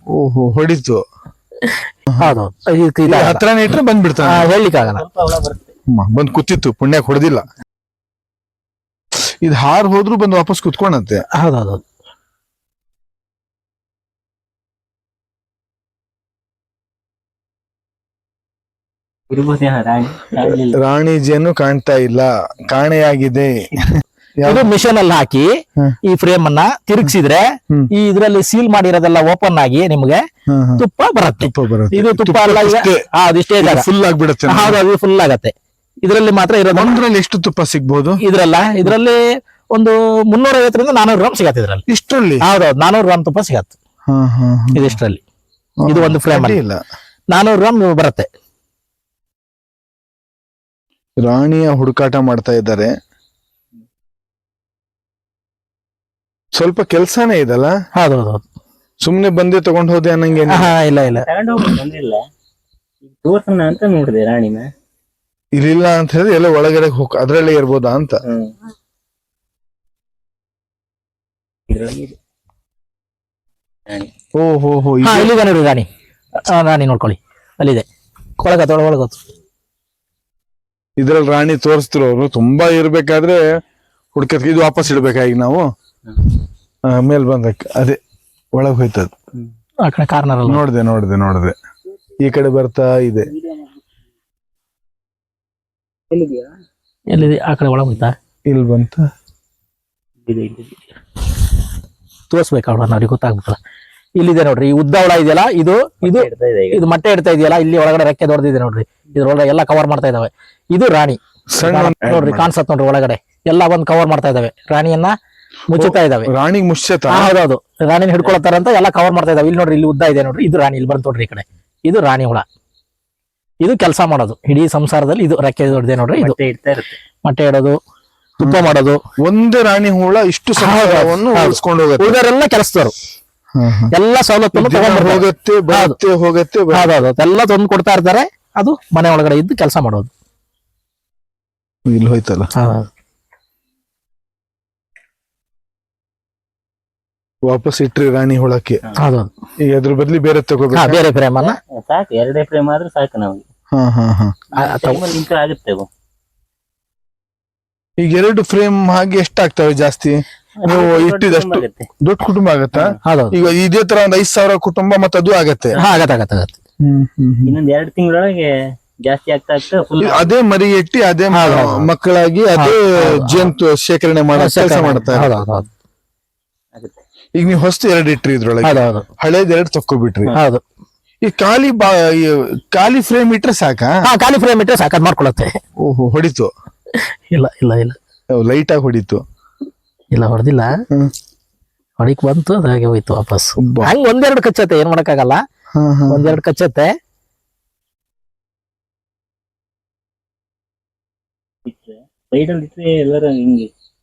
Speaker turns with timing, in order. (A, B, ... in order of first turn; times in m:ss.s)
0:00.1-0:01.0 A
0:01.6-0:03.4 B
0:02.1-0:02.4 A
0:03.1-0:04.5 A
0:04.2-0:05.0 B
0:04.8-0:05.7 C
0:05.9-0:07.4 A
0:09.4-0:11.2 A
0:11.4-0:11.8 B
0:19.3-0:20.8 C
0:20.5-0:23.7 A
0:24.4-0:24.7 A
0:24.4-0:30.2 B
0:30.5-0:30.8 A
0:30.8-0:33.9 B
0:31.4-0:33.0 A
0:33.6-0:34.8 A
0:34.5-0:37.0 B
0:36.7-0:38.2 A
0:38.2-0:39.2 B
0:39.7-0:41.8 B
0:41.9-0:42.4 A
0:42.4-0:43.7 B
0:44.1-0:45.0 A
0:44.8-0:45.2 B
0:45.8-0:46.8 A
0:45.9-0:46.6 B
0:47.3-0:48.3 B
0:51.2-0:52.9 A
0:56.6-0:57.7 A
0:58.0-0:58.4 B
0:59.0-1:00.7 A
1:00.5-1:01.3 B
1:01.1-1:02.2 C
1:03.1-1:04.7 C
1:05.6-1:08.2 A
1:08.2-1:08.5 C
1:11.7-1:12.2 C
1:14.4-1:15.3 A
1:15.0-1:15.9 B
1:16.4-1:17.9 B
1:18.4-1:19.2 B
1:21.0-1:23.4 A
1:24.1-1:25.7 A
1:26.9-1:28.0 A
1:28.5-1:29.1 A
1:29.8-1:30.6 B
1:30.5-1:31.6 A
1:32.2-1:33.3 A
1:33.3-1:33.7 C
1:36.1-1:36.5 C
1:37.1-1:38.1 B
1:38.5-1:39.0 A
1:40.3-1:40.8 C
1:42.3-1:43.6 B
1:44.2-1:55.2 B
1:46.0-1:46.8 C
1:51.5-1:52.5 A
1:55.7-1:56.3 B
1:55.7-1:57.3 A
1:57.1-2:02.4 B
2:03.6-2:06.4 B
2:06.2-2:07.0 C
2:07.2-2:07.8 B
2:08.4-2:09.0 B
2:09.2-2:12.2 A
2:10.6-2:12.9 B
2:13.6-2:13.9 A
2:13.9-2:16.0 B
2:14.5-2:17.0 A
2:16.7-2:20.1 B
2:21.9-2:22.5 A
2:22.6-2:22.9 B
2:27.5-2:28.8 A
2:29.0-2:29.3 B
2:29.6-2:31.0 A
2:30.7-2:31.6 B
2:31.4-2:33.4 C
2:33.7-2:34.3 A
2:34.5-2:35.9 C
2:34.6-2:35.0 B
2:38.0-2:45.8 A
2:40.6-2:41.9 C
2:43.0-2:43.3 B
2:45.8-2:46.6 B
2:46.8-2:47.6 A
2:47.5-2:48.5 C
2:49.0-2:50.3 C
2:50.0-2:55.4 A
2:51.3-2:51.9 B
2:52.6-2:53.5 B
2:54.4-2:55.7 B
2:56.7-2:57.0 C
2:57.4-3:00.3 A
2:58.6-2:59.0 B
3:00.3-3:00.6 B
3:01.2-3:03.9 A
3:04.0-3:05.6 B
3:05.8-3:06.5 A
3:07.3-3:08.0 B
3:08.3-3:09.2 A
3:10.1-3:10.7 B
3:12.0-3:15.4 B
3:13.6-3:13.9 A
3:15.8-3:16.4 A
3:16.1-3:17.0 B
3:21.7-3:23.7 C